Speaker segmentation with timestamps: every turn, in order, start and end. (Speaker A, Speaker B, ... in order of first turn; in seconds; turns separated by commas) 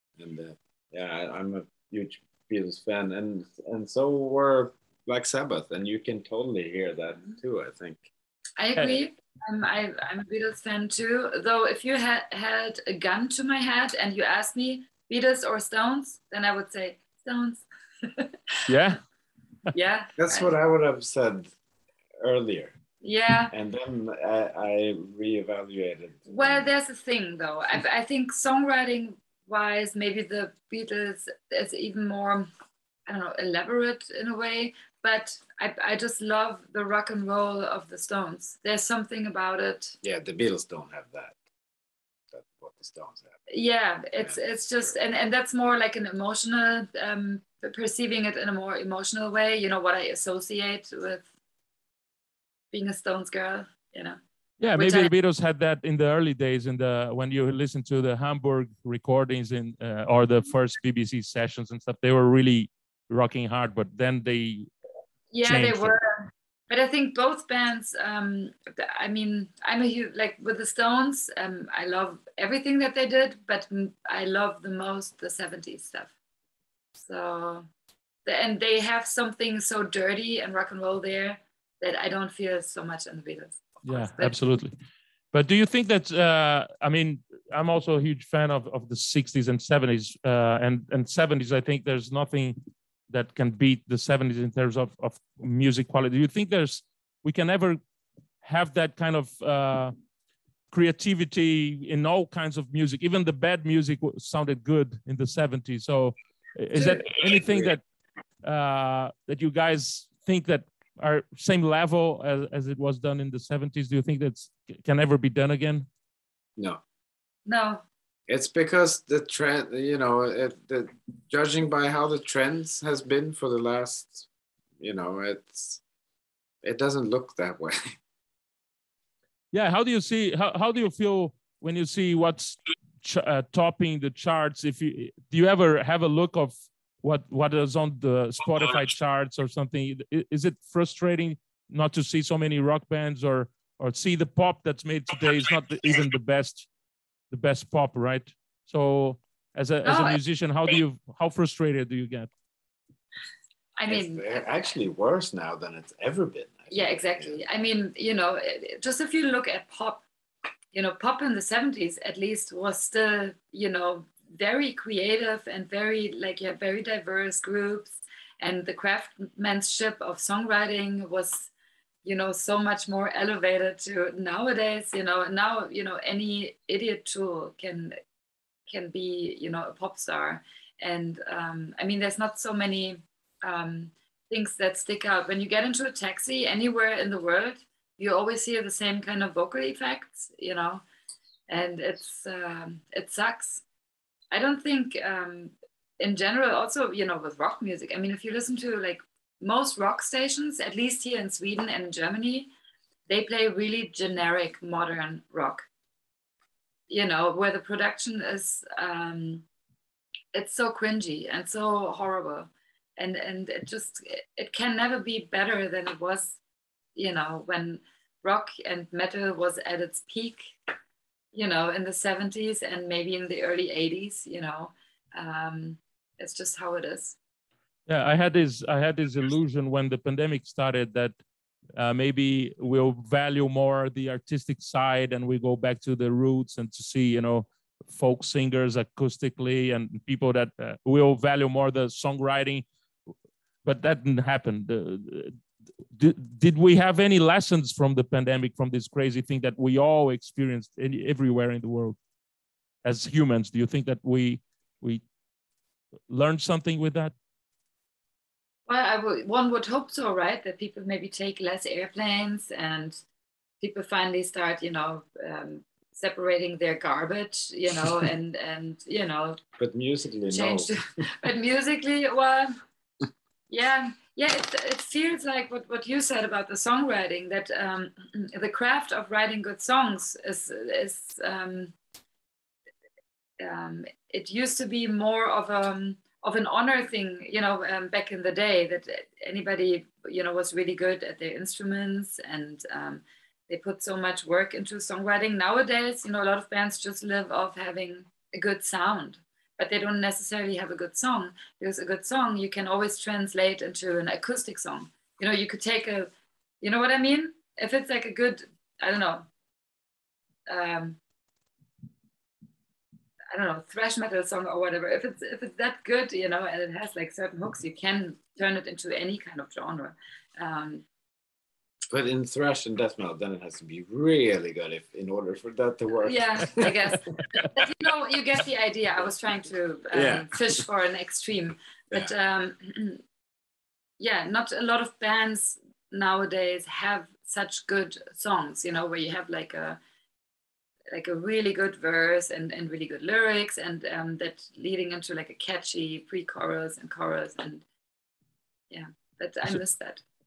Speaker A: 0.2-8.1, Speaker B: 8.6-18.7, Speaker C: 18.7-19.0, Speaker B: 19.7-20.5, Speaker A: 20.2-21.5, Speaker A: 22.2-22.8, Speaker B: 23.0-23.5, Speaker A: 23.5-26.6, Speaker B: 26.3-32.5, Speaker B: 33.1-40.0, Speaker A: 40.0-41.4, Speaker A: 42.3-43.4, Speaker B: 43.5-51.3, Speaker B: 52.7-54.2, Speaker C: 54.6-64.7, Speaker B: 54.8-55.1, Speaker B: 65.3-76.1, Speaker C: 65.4-65.9, Speaker B: 77.0-77.7, Speaker B: 78.2-84.4, Speaker C: 83.8-84.7, Speaker C: 85.3-92.6, Speaker C: 93.1-97.8, Speaker C: 98.4-99.9, Speaker C: 100.7-107.8, Speaker B: 106.8-107.0, Speaker C: 108.4-115.9, Speaker B: 117.5-117.8, Speaker A: 118.3-124.3, Speaker A: 124.8-125.8, Speaker A: 126.6-128.0, Speaker C: 129.5-146.7, Speaker C: 147.3-152.3, Speaker B: 149.8-150.2, Speaker B: 153.8-154.7, Speaker A: 153.9-157.4, Speaker B: 156.7-160.1, Speaker B: 160.7-171.5, Speaker B: 172.0-178.0, Speaker B: 178.7-190.8, Speaker B: 191.5-193.6, Speaker B: 194.3-202.5, Speaker B: 203.1-205.7, Speaker B: 206.9-209.4, Speaker B: 210.3-216.4, Speaker B: 216.9-220.6, Speaker B: 221.3-227.2, Speaker C: 227.9-231.1, Speaker C: 231.8-242.7, Speaker C: 243.6-245.4, Speaker C: 245.9-252.0, Speaker C: 252.8-255.0, Speaker C: 256.1-257.1, Speaker B: 258.7-263.0, Speaker B: 263.6-269.4, Speaker A: 269.6-271.1, Speaker B: 270.3-272.6, Speaker B: 273.5-281.7, Speaker B: 283.4-309.3, Speaker B: 310.5-311.0, Speaker B: 313.3-320.9, Speaker A: 321.9-326.8, Speaker B: 326.0-333.0, Speaker A: 329.9-330.6, Speaker B: 334.0-339.8, Speaker B: 340.9-347.6, Speaker B: 348.7-350.0